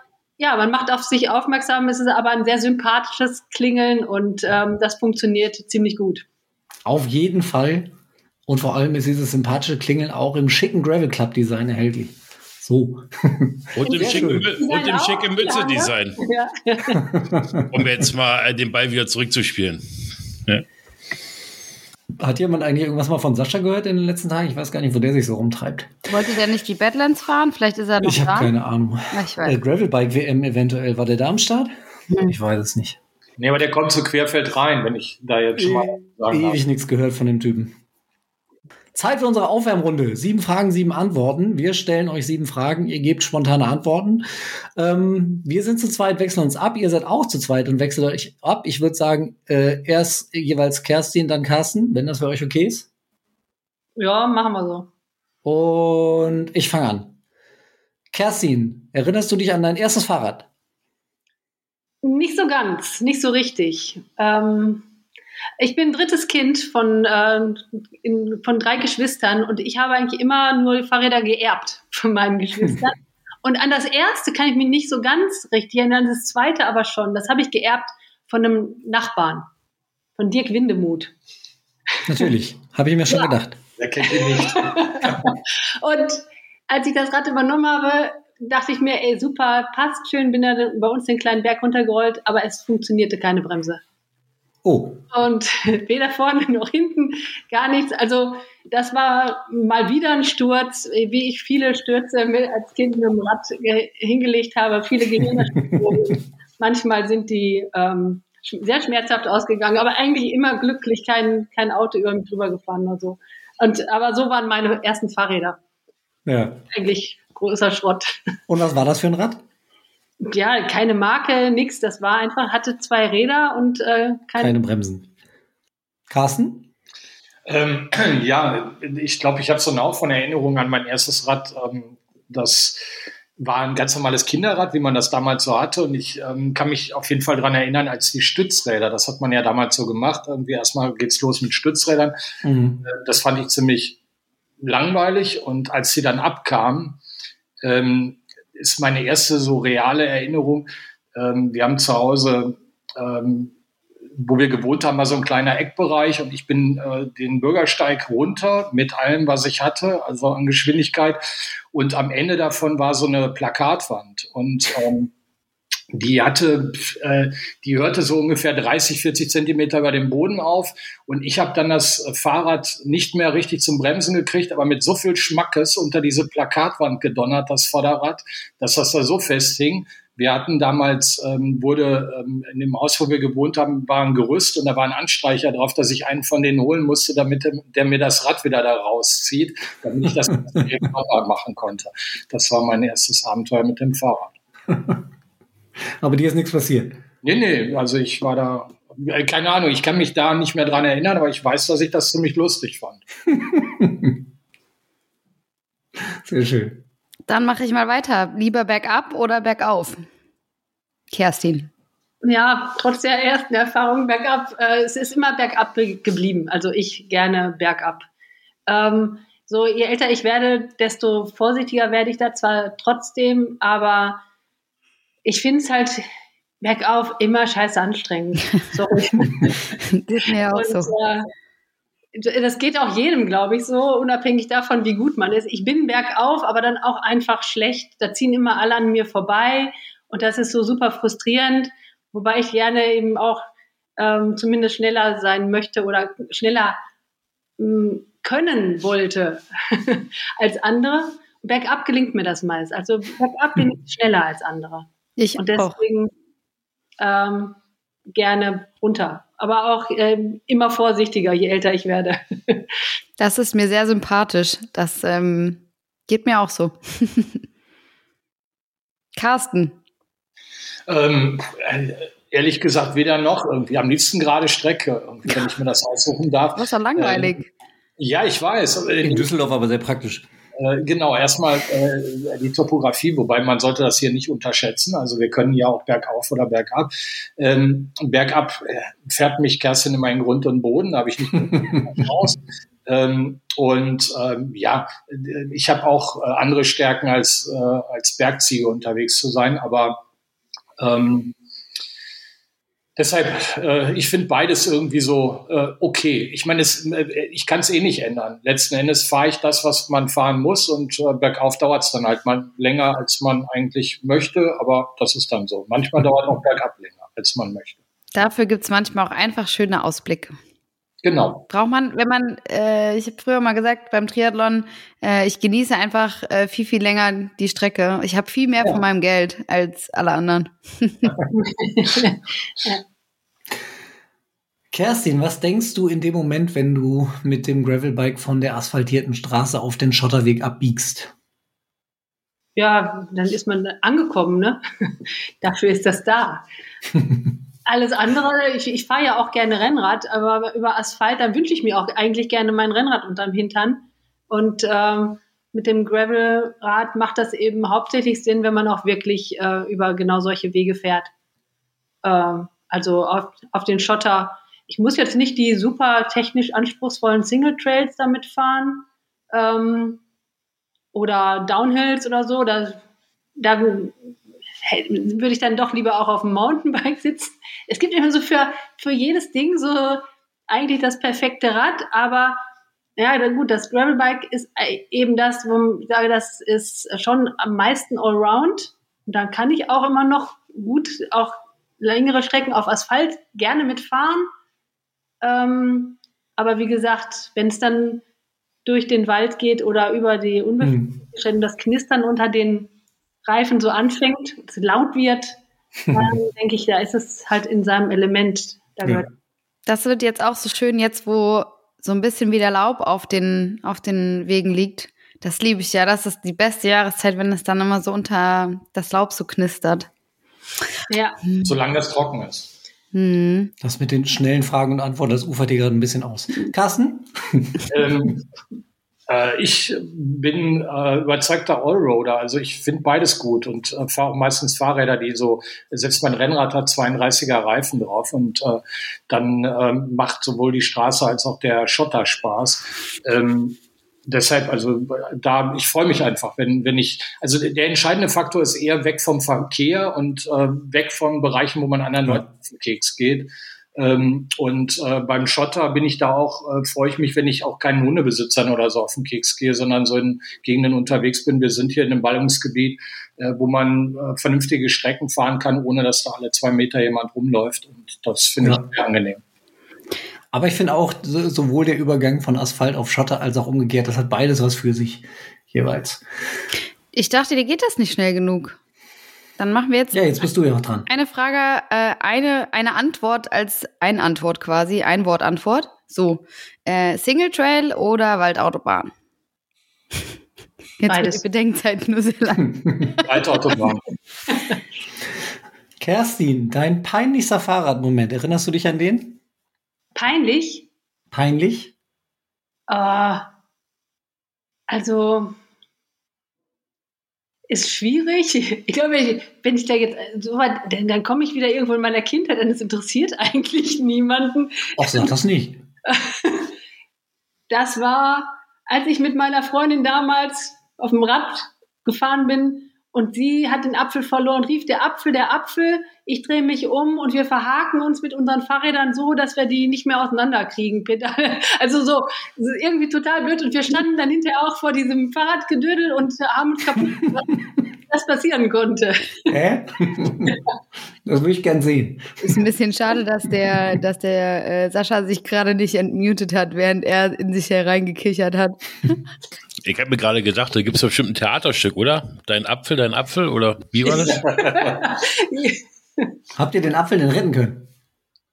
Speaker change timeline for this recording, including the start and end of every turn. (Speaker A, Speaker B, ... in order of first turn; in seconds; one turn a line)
Speaker A: 0.4-6.2
Speaker B: 6.8-7.9
Speaker B: 8.5-14.5
Speaker C: 13.7-16.2
Speaker A: 13.8-17.1
Speaker B: 17.1-17.8
Speaker C: 17.7-19.8
Speaker B: 22.2-25.9
Speaker D: 26.1-28.5
Speaker B: 28.0-33.0
Speaker D: 29.1-29.6
Speaker E: 33.4-36.6
Speaker B: 35.6-37.8
Speaker B: 38.9-52.9
Speaker A: 54.0-54.9
Speaker B: 55.4-57.1
Speaker B: 58.1-60.5
Speaker A: 62.0-64.8
Speaker A: 65.6-79.5
Speaker A: 80.2-81.1
Speaker B: 82.0-83.6
Speaker E: 83.8-85.3
Speaker A: 84.0-93.8
Speaker B: 94.6-95.0
Speaker A: 95.1-115.6
Speaker B: 116.2-116.6
Speaker A: 116.7-118.1
Speaker B: 118.5-119.4
Speaker A: 120.2-124.6
Speaker B: 124.4-125.1
Speaker B: 126.1-126.7
Speaker E: 127.5-132.9
Speaker E: 133.4-142.1
Speaker B: 142.4-142.8
Speaker E: 142.8-144.0
Speaker E: 144.6-147.0
Speaker E: 147.6-153.5
Speaker E: 154.2-161.2
Speaker E: 161.7-165.1
Speaker E: 165.9-194.3
Speaker B: 194.7-195.0
Speaker B: 196.0-197.0
Speaker E: 197.2-203.0
Speaker B: 203.3-204.2
Speaker B: 206.0-206.8
Speaker D: 207.3-210.1
Speaker D: 211.1-211.7
Speaker A: 212.2-218.1
Speaker A: 218.7-224.2
Speaker A: 225.2-226.1
Speaker A: 226.6-229.6
Speaker D: 229.9-230.9
Speaker A: 230.5-231.3
Speaker A: 232.1-243.5
Speaker A: 244.0-246.8
Speaker A: 247.6-256.1
Speaker D: 255.2-255.7
Speaker A: 257.0-257.6
Speaker A: 258.1-262.6
Speaker D: 263.2-267.4
Speaker D: 269.1-269.8
Speaker E: 270.9-277.3
Speaker D: 276.6-277.5
Speaker E: 278.0-279.3
Speaker B: 279.0-280.3
Speaker E: 280.6-300.0
Speaker E: 300.8-301.3
Speaker E: 303.0-317.8
Speaker D: 318.1-320.3
Speaker E: 321.0-321.5
Speaker D: 321.5-331.2
Speaker A: 331.3-332.8
Speaker B: 334.7-341.1
Speaker A: 342.6-344.6
Speaker A: 345.4-346.4
Speaker A: 347.6-361.1
Speaker A: 362.0-370.0
Speaker A: 370.9-372.8
Speaker A: 373.4-382.4
Speaker A: 383.0-394.3
Speaker A: 395.2-398.0
Speaker A: 398.6-402.7
Speaker B: 400.6-401.0
Speaker A: 403.2-409.1
Speaker B: 405.9-406.1
Speaker D: 409.6-419.9
Speaker A: 420.9-421.2
Speaker D: 421.3-421.5
Speaker E: 421.4-422.5
Speaker D: 422.9-423.5
Speaker B: 423.6-427.6
Speaker E: 427.7-428.2
Speaker E: 429.1-469.2
Speaker B: 470.3-476.0
Speaker D: 476.9-478.6
Speaker D: 479.4-480.1
Speaker B: 479.9-480.9
Speaker D: 480.9-488.9
Speaker D: 490.8-492.9
Speaker A: 490.9-491.2
Speaker E: 493.0-493.8
Speaker B: 495.8-499.2
Speaker A: 499.9-500.7
Speaker B: 501.1-501.7
Speaker A: 502.7-503.3
Speaker A: 504.7-505.4
Speaker A: 507.5-515.1
Speaker B: 514.8-515.6
Speaker A: 515.9-516.5
Speaker A: 517.5-539.3
Speaker B: 539.3-540.4
Speaker B: 541.0-542.4
Speaker D: 542.2-549.0
Speaker C: 549.6-554.2
Speaker A: 553.9-556.1
Speaker E: 554.2-554.8
Speaker B: 556.3-557.7